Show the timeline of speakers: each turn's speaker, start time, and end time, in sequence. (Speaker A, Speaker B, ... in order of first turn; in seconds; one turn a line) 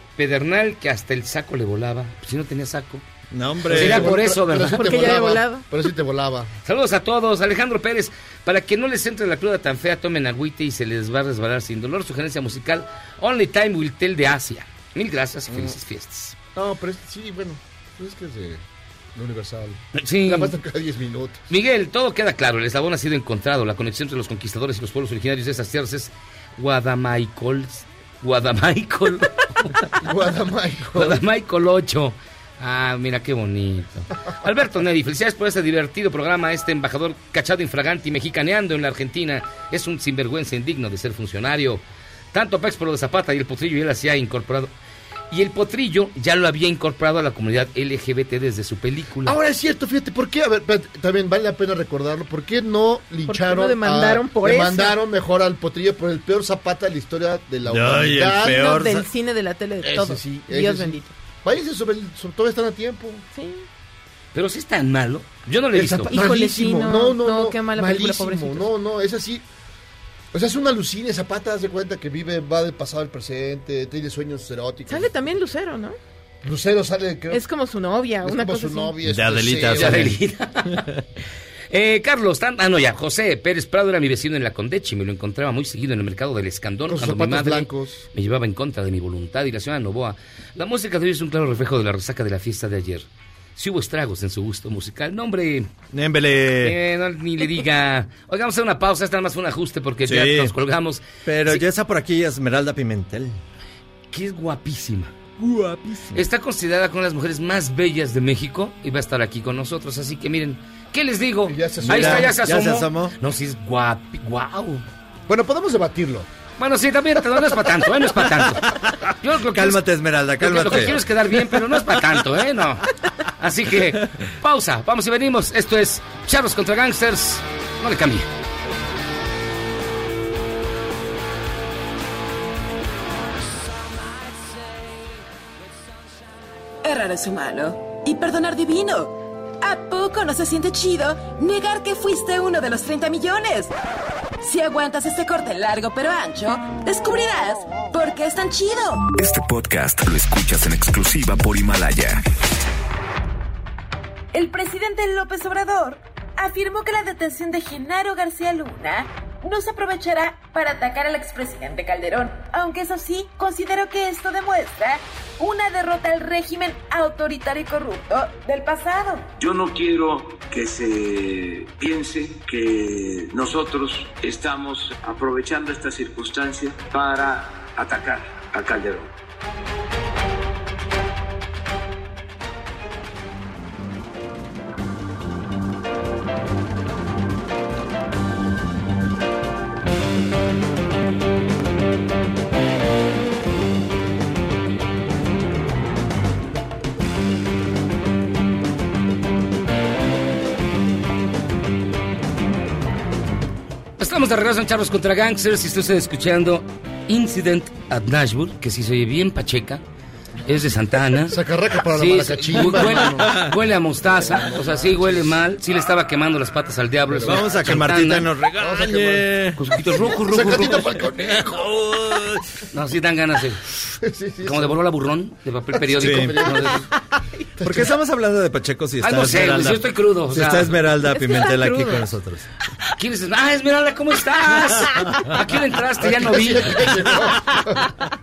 Speaker A: 0.2-3.0
Speaker B: 3.3-4.2
Speaker A: 3.7-5.2
Speaker C: 3.7-6.5
Speaker D: 4.7-5.7
Speaker A: 6.6-16.4
Speaker C: 16.5-18.6
Speaker C: 19.1-21.4
Speaker A: 19.9-20.6
Speaker A: 21.5-29.9
Speaker C: 30.0-31.2
Speaker A: 30.9-41.8
Speaker A: 42.3-44.7
Speaker A: 45.3-49.4
Speaker C: 49.2-58.7
Speaker D: 53.3-55.0
Speaker B: 57.6-59.1
Speaker D: 58.4-61.1
Speaker C: 59.8-63.2
Speaker D: 63.3-63.6
Speaker A: 64.3-66.2
Speaker C: 65.7-69.4
Speaker D: 66.1-68.7
Speaker C: 70.3-75.1
Speaker D: 74.9-76.0
Speaker C: 76.4-77.5
Speaker D: 77.3-78.9
Speaker C: 78.2-80.2
Speaker B: 79.0-80.9
Speaker A: 79.7-80.8
Speaker A: 81.7-95.7
Speaker C: 86.9-88.0
Speaker B: 95.9-96.8
Speaker A: 96.6-101.6
Speaker B: 100.0-100.5
Speaker B: 101.2-103.4
Speaker A: 104.1-105.1
Speaker B: 105.4-106.2
Speaker A: 106.1-114.8
Speaker C: 111.5-112.3
Speaker B: 111.8-113.2
Speaker C: 115.3-116.3
Speaker A: 116.6-119.8
Speaker B: 118.3-121.8
Speaker A: 120.4-128.3
Speaker E: 136.8-143.7
Speaker E: 144.4-149.1
Speaker F: 149.1-152.2
Speaker E: 154.3-169.3
Speaker G: 169.4-179.1
Speaker A: 204.0-209.8
Speaker A: 210.4-218.3
Speaker C: 211.3-213.5
Speaker B: 212.7-213.5
Speaker C: 214.0-215.4
Speaker C: 217.1-217.9
Speaker B: 217.1-219.6
Speaker C: 218.6-221.8
Speaker A: 219.6-221.0
Speaker B: 221.3-222.4
Speaker A: 222.7-223.6
Speaker C: 224.0-224.8
Speaker A: 224.4-226.8
Speaker C: 225.8-226.9
Speaker B: 225.9-226.6
Speaker C: 227.6-227.8
Speaker B: 227.6-232.4
Speaker A: 229.0-230.8
Speaker D: 231.1-232.0
Speaker A: 233.0-237.0
Speaker C: 236.0-237.9